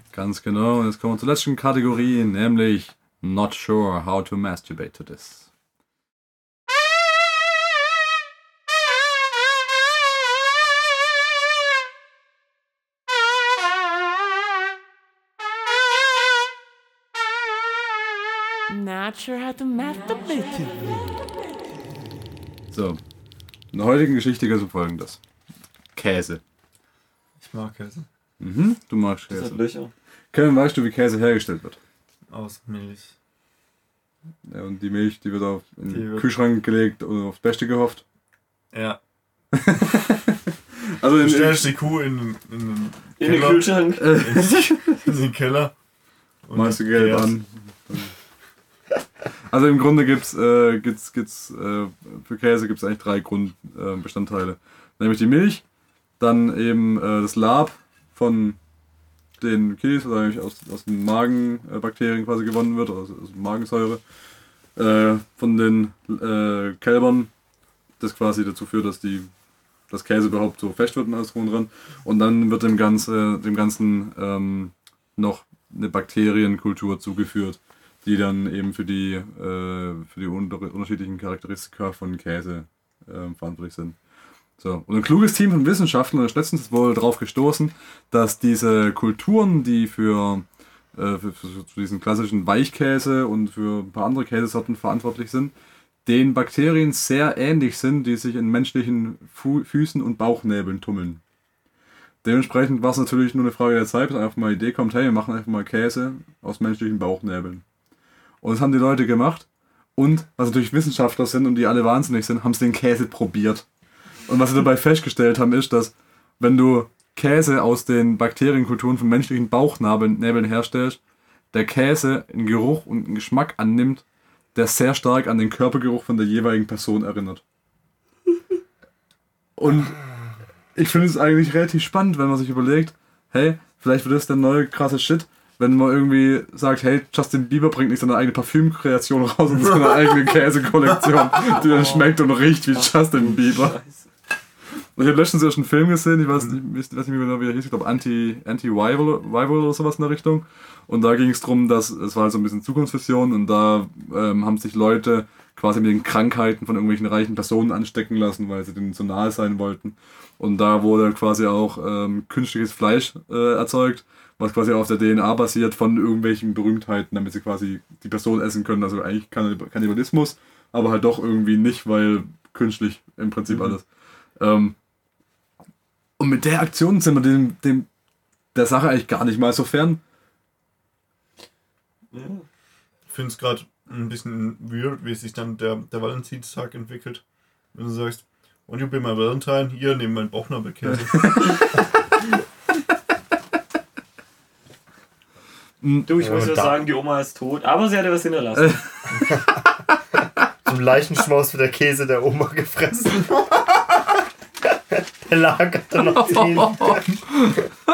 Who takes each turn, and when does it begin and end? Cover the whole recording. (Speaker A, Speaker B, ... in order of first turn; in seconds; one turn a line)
Speaker A: 0.1-5.5
Speaker B: 18.7-21.4
Speaker A: 22.7-23.0
Speaker A: 23.7-25.2
Speaker A: 25.9-26.4
Speaker C: 27.4-28.1
Speaker A: 28.4-29.6
Speaker D: 29.3-29.9
Speaker A: 30.3-31.8
Speaker C: 32.3-33.1
Speaker A: 34.5-38.0
Speaker C: 35.9-36.3
Speaker C: 38.7-39.0
Speaker A: 39.5-41.7
Speaker C: 41.2-45.7
Speaker D: 43.2-44.2
Speaker A: 43.2-45.1
Speaker C: 46.5-47.3
Speaker A: 46.5-48.1
Speaker A: 49.5-55.6
Speaker A: 56.2-58.6
Speaker A: 59.4-64.0
Speaker A: 64.8-67.3
Speaker A: 68.0-69.3
Speaker A: 69.9-84.0
Speaker A: 84.6-95.5
Speaker A: 96.1-101.2
Speaker A: 102.2-107.6
Speaker A: 108.4-113.7
Speaker A: 114.3-121.0
Speaker A: 121.5-124.0
Speaker A: 124.5-127.4
Speaker A: 129.6-130.0
Speaker A: 130.8-143.8
Speaker D: 141.6-142.1
Speaker D: 142.7-144.1
Speaker A: 145.0-173.9
Speaker A: 174.4-174.8
Speaker A: 176.2-177.9
Speaker A: 178.5-180.0
Speaker D: 182.1-182.4
Speaker C: 183.1-187.2
Speaker C: 187.7-191.7
Speaker A: 190.8-191.6
Speaker A: 195.8-196.1
Speaker D: 196.1-198.8
Speaker E: 196.2-196.8
Speaker A: 198.6-198.8
Speaker E: 200.7-203.5
Speaker E: 204.7-207.2
Speaker A: 206.0-207.6